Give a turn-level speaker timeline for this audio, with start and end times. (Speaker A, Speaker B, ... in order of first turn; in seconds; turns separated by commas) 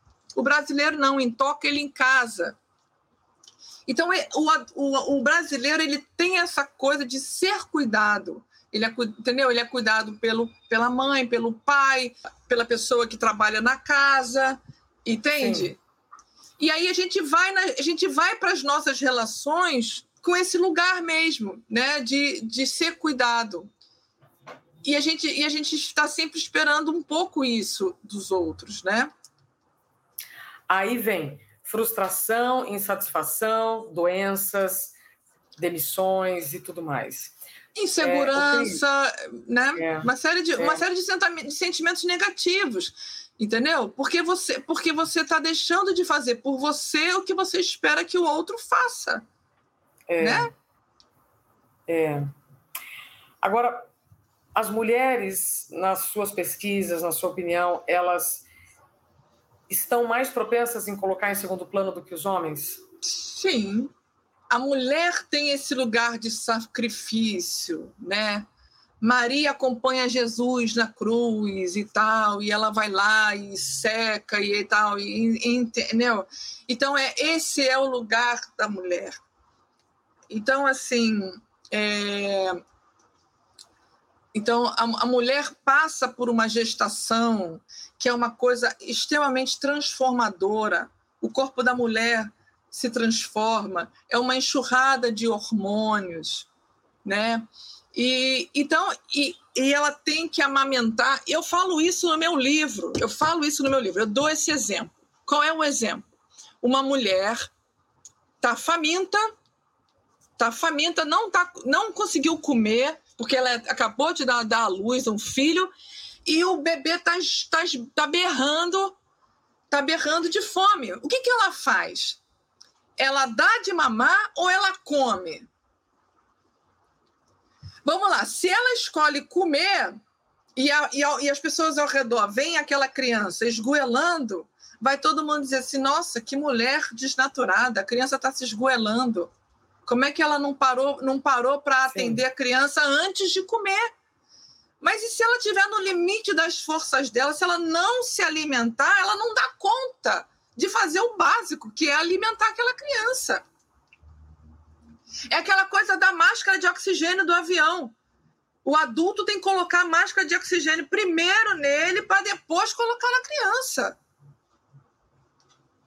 Speaker A: 0.3-2.6, Speaker A: 3.9-15.8, Speaker B: 15.4-15.7, Speaker A: 16.6-23.7, Speaker A: 24.8-29.1, Speaker B: 30.7-35.0, Speaker B: 35.6-37.4, Speaker A: 37.8-49.2, Speaker B: 38.0-38.8, Speaker B: 39.8-40.8, Speaker B: 50.1-50.5, Speaker A: 50.2-50.5, Speaker B: 51.9-52.3, Speaker B: 53.4-53.9, Speaker B: 54.5-58.5, Speaker B: 59.7-62.8, Speaker A: 63.0-63.9, Speaker A: 64.5-68.5, Speaker A: 69.0-79.2, Speaker A: 80.3-82.6, Speaker A: 84.3-96.5, Speaker A: 97.0-106.0, Speaker A: 106.6-107.5, Speaker A: 108.4-109.2, Speaker A: 110.4-115.7, Speaker A: 116.2-119.0, Speaker A: 119.7-122.2, Speaker A: 123.0-125.5, Speaker A: 127.8-130.0, Speaker A: 130.6-139.3, Speaker A: 139.9-143.9, Speaker B: 141.9-142.2, Speaker A: 144.8-153.4, Speaker A: 155.3-157.9, Speaker A: 158.7-163.9